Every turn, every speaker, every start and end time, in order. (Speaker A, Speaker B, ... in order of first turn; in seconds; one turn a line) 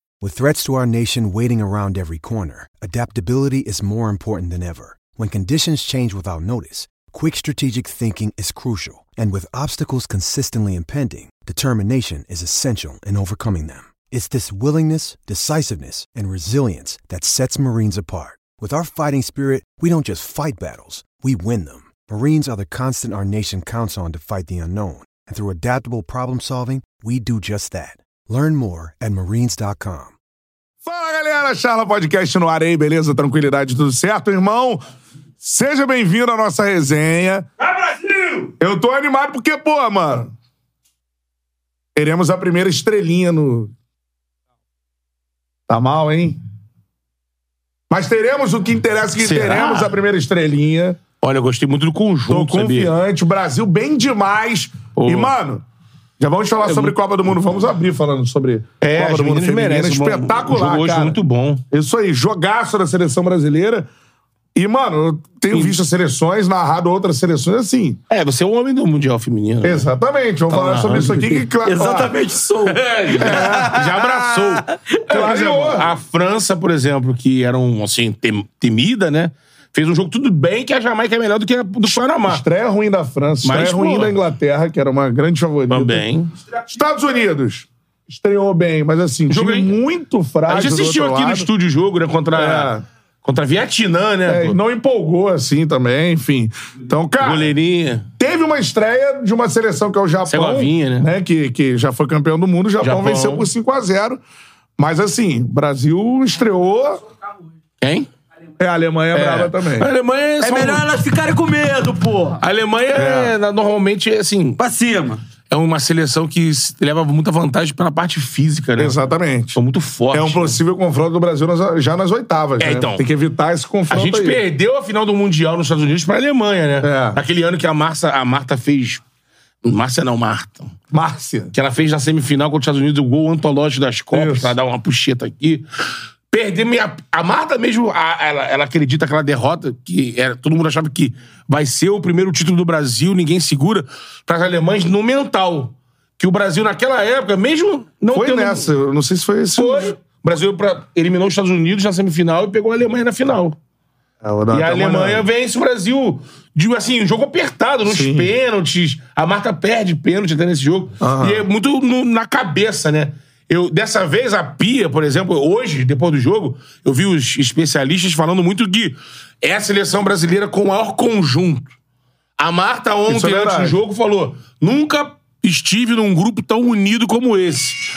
Speaker A: 0.2-30.1
Speaker B: 30.8-34.8
Speaker B: 35.4-37.5
Speaker C: 37.7-38.5
Speaker B: 38.4-40.3
Speaker B: 41.9-43.7
Speaker B: 45.7-46.4
Speaker B: 47.9-51.0
Speaker C: 49.2-49.9
Speaker C: 51.2-52.9
Speaker B: 52.3-55.6
Speaker C: 54.9-55.3
Speaker B: 56.2-61.2
Speaker C: 56.6-57.0
Speaker C: 58.8-61.6
Speaker B: 61.7-63.9
Speaker B: 64.5-68.0
Speaker C: 65.5-65.8
Speaker C: 68.1-69.9
Speaker B: 69.6-72.2
Speaker C: 70.5-71.2
Speaker D: 71.1-73.8
Speaker C: 72.7-82.4
Speaker B: 73.1-75.9
Speaker D: 74.6-75.0
Speaker B: 82.2-86.0
Speaker C: 83.4-84.1
Speaker C: 85.7-86.3
Speaker B: 86.6-91.5
Speaker C: 89.3-89.8
Speaker C: 90.5-94.6
Speaker B: 92.3-92.8
Speaker B: 94.2-97.5
Speaker C: 97.2-98.1
Speaker B: 98.2-104.2
Speaker C: 100.3-101.1
Speaker C: 102.8-103.5
Speaker B: 104.8-107.0
Speaker C: 107.8-108.1
Speaker B: 108.6-109.9
Speaker C: 109.1-110.8
Speaker D: 110.4-112.4
Speaker C: 112.4-114.6
Speaker B: 112.9-113.3
Speaker D: 114.6-115.2
Speaker C: 115.5-119.0
Speaker B: 118.8-119.6
Speaker C: 119.5-120.6
Speaker B: 120.1-124.4
Speaker C: 122.6-123.0
Speaker C: 123.9-129.0
Speaker B: 126.8-127.2
Speaker C: 129.6-130.7
Speaker B: 130.9-131.5
Speaker C: 131.5-135.7
Speaker B: 134.1-134.5
Speaker C: 136.3-148.7
Speaker B: 148.1-149.9
Speaker C: 149.6-153.6
Speaker B: 154.2-155.2
Speaker C: 154.5-171.7
Speaker B: 157.8-158.3
Speaker B: 161.0-161.4
Speaker C: 172.4-177.8
Speaker B: 173.1-173.8